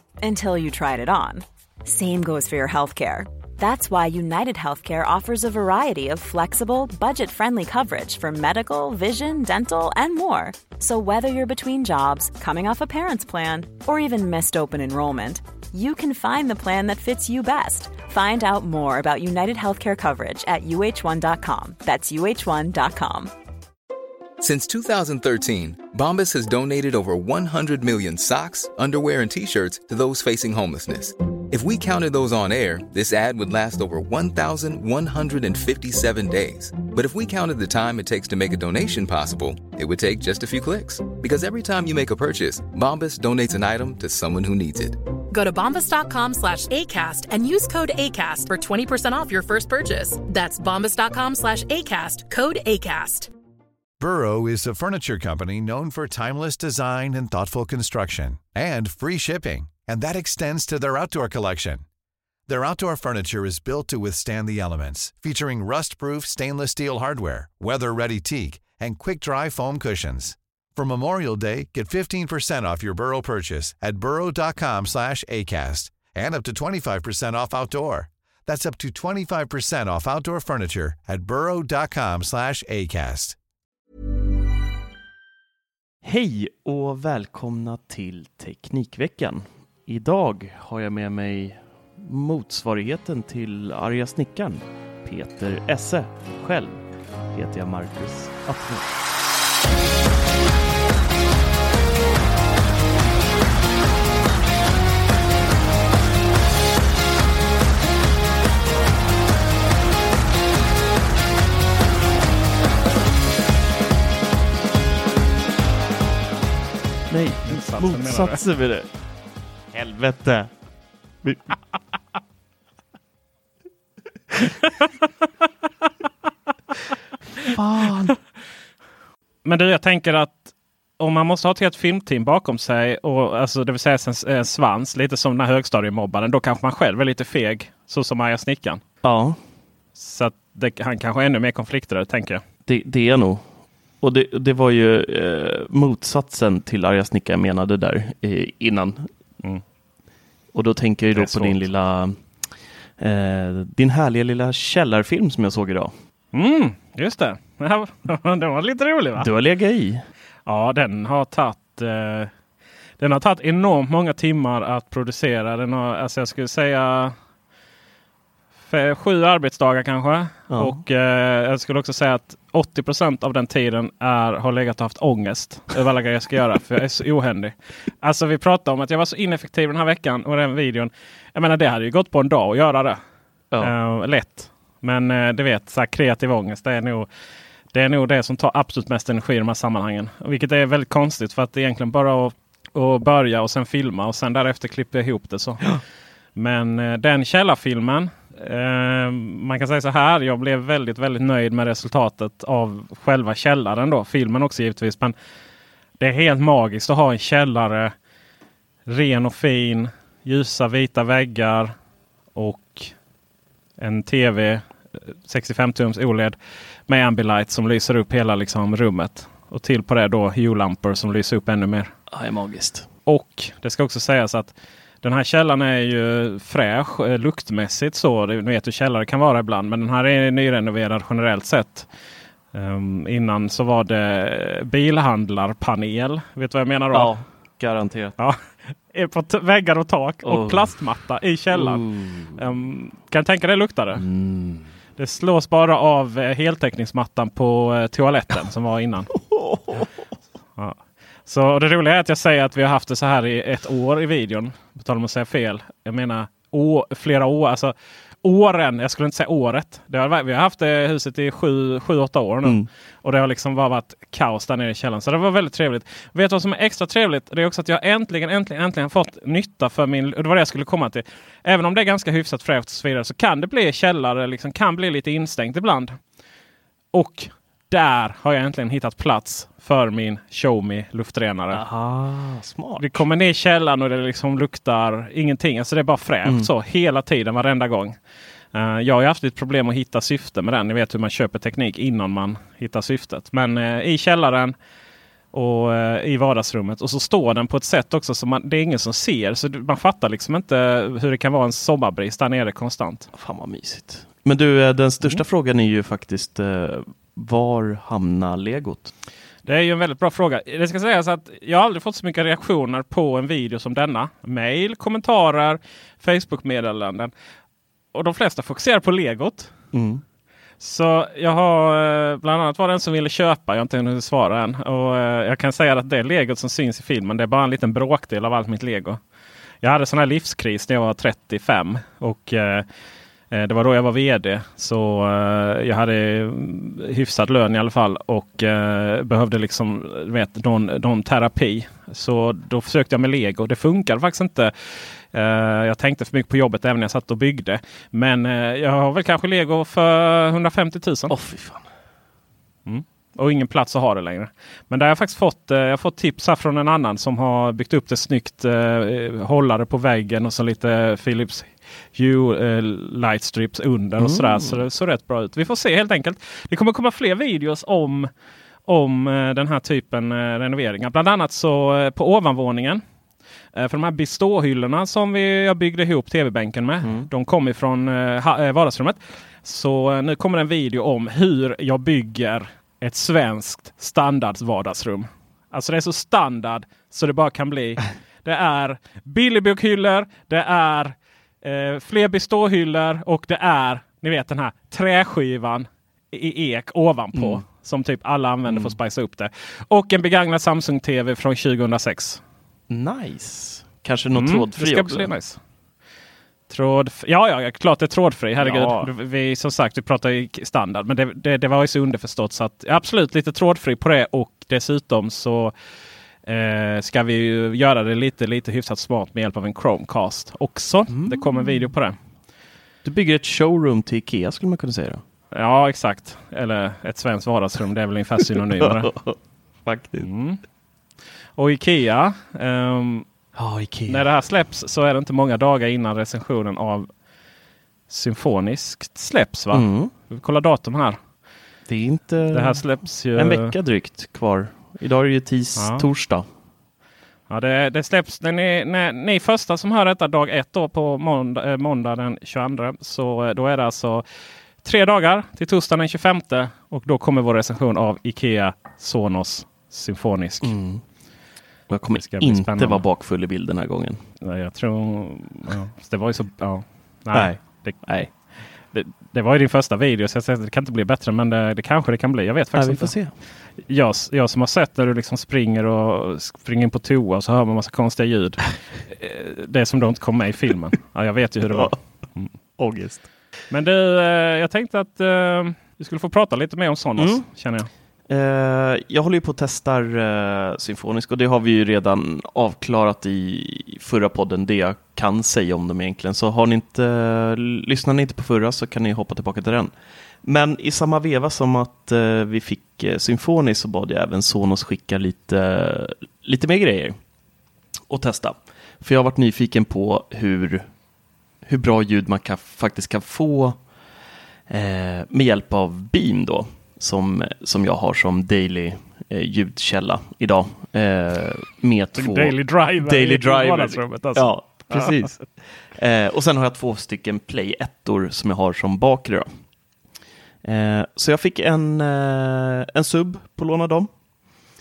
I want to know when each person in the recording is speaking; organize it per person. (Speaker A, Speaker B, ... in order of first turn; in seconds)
Speaker A: 0.2-23.3
Speaker B: 24.4-45.0
Speaker C: 45.3-53.3
Speaker D: 54.0-61.8, 62.5-83.4
Speaker E: 86.0-98.9, 117.1-118.9, 119.7-120.5, 121.2-121.5, 127.4-128.2, 139.0-139.4, 142.7-143.4, 144.0-149.1, 150.5-152.2, 153.0-155.9, 159.2-160.0, 170.5-170.8, 222.1-222.9, 236.9-238.2, 240.2-240.7, 241.5-242.4, 243.9-244.7, 249.1-249.9, 281.5-283.0, 303.1-308.9, 319.7-320.0, 351.1-351.6, 364.0-364.6, 376.8-377.1, 397.1-397.4, 398.4-398.7, 402.7-405.1, 408.4-408.9, 420.9-421.7, 422.8-425.0, 428.6-430.1, 433.4-434.0, 439.5-439.9, 441.7-446.2, 460.4-460.8, 461.7-464.0, 467.1-468.1, 472.5-473.1, 481.5-481.8, 482.6-483.0, 487.0-487.2, 488.1-499.7, 500.2-507.0, 507.9-510.6, 511.4-513.6, 514.5-529.4, 530.4-533.9
Speaker F: 117.5-118.4, 129.4-138.8, 139.9-142.4, 151.1-151.6, 156.3-159.3, 160.4-162.3, 163.0-167.1, 168.7-183.0, 183.6-187.1, 187.7-195.7, 196.3-205.1, 206.0-207.9, 208.9-211.7, 212.3-212.9, 213.8-214.6, 215.3-216.3, 216.9-221.9, 223.1-231.9, 232.5-237.1, 238.9-241.8, 242.3-244.0, 245.0-249.1, 250.6-276.0, 276.9-281.6, 282.8-287.9, 288.5-294.5, 295.3-303.1, 309.4-317.1, 317.9-319.5, 320.6-329.0, 329.6-332.6, 333.3-351.1, 352.6-368.1, 368.6-372.8, 373.5-402.2, 404.1-405.4, 406.5-415.5, 416.2-421.9, 425.3-428.9, 430.0-430.4, 431.4-433.1, 433.9-436.9, 437.9-441.0, 442.3-443.5, 445.6-445.9, 447.3-454.0, 454.6-460.5, 461.9-462.8, 464.2-467.8, 468.7-472.9, 473.7-482.3, 483.5-487.7, 522.0-524.9